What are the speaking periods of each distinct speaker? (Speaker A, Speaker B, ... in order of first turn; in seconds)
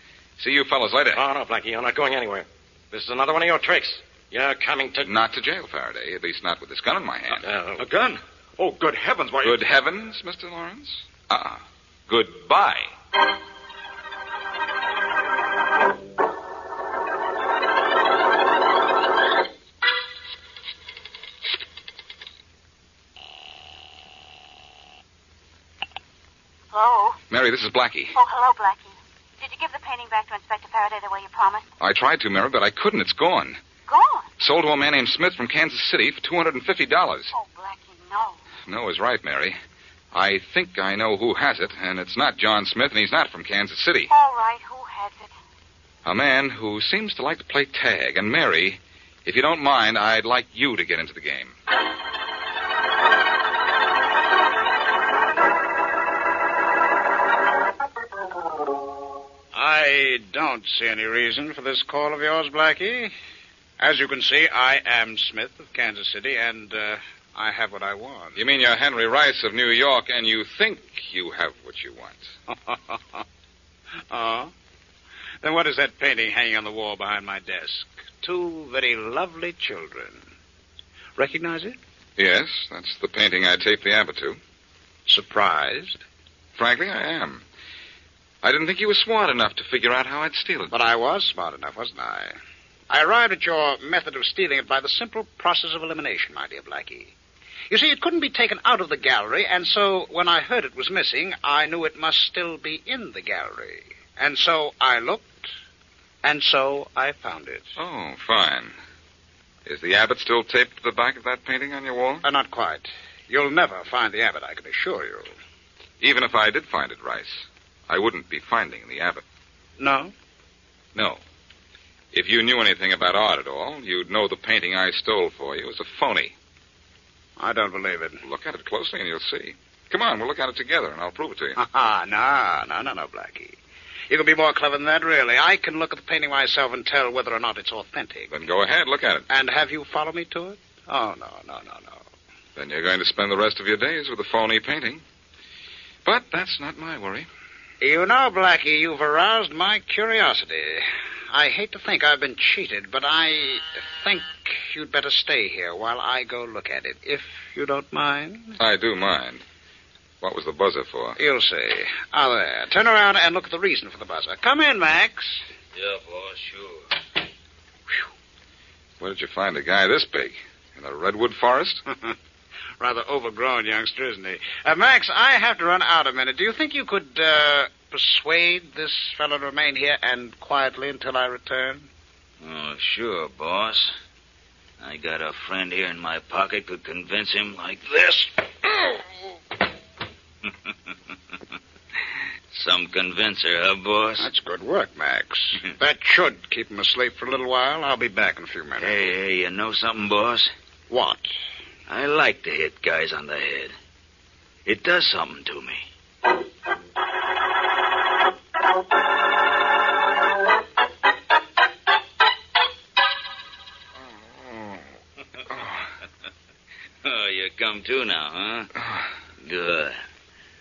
Speaker A: 0.4-1.2, 5.0-7.4, 9.4-12.9, 27.3-28.1, 31.8-33.6, 34.4-37.3, 38.6-39.6, 40.1-44.1, 46.0-51.5, 68.3-72.3, 82.2-84.4, 86.6-87.4, 88.4-90.7, 107.8-108.7, 109.7-112.2, 116.0-119.2, 120.9-121.2, 122.1-126.3, 128.2-131.6, 138.3-139.3, 142.6-145.0, 146.0-147.3, 158.6-159.4, 160.2-161.2, 169.0-171.8, 214.0-214.8, 215.5-215.9, 218.8-219.1
Speaker B: 1.1-5.1, 7.4-7.8
Speaker C: 7.8-9.7, 165.7-166.9, 182.4-183.9, 184.8-188.7, 192.5-194.3, 198.8-200.5, 201.9-203.7, 204.7-205.9, 217.0-218.7, 219.4-220.0
Speaker D: 26.7-27.2, 28.1-31.6, 33.9-34.3, 37.3-38.4, 44.1-45.3
Speaker E: 59.5-63.1, 63.8-68.4, 72.5-73.2, 74.1-74.5, 75.4-80.2, 81.2-81.8, 85.1-86.0, 90.7-92.3, 92.9-97.1, 97.7-105.5, 106.2-107.7, 112.2-115.3, 119.8-120.1, 127.4-128.2, 131.6-133.6, 134.1-138.3, 139.3-142.0, 147.8-158.6, 161.2-165.4, 172.8-181.9, 194.2-199.0, 200.9-201.3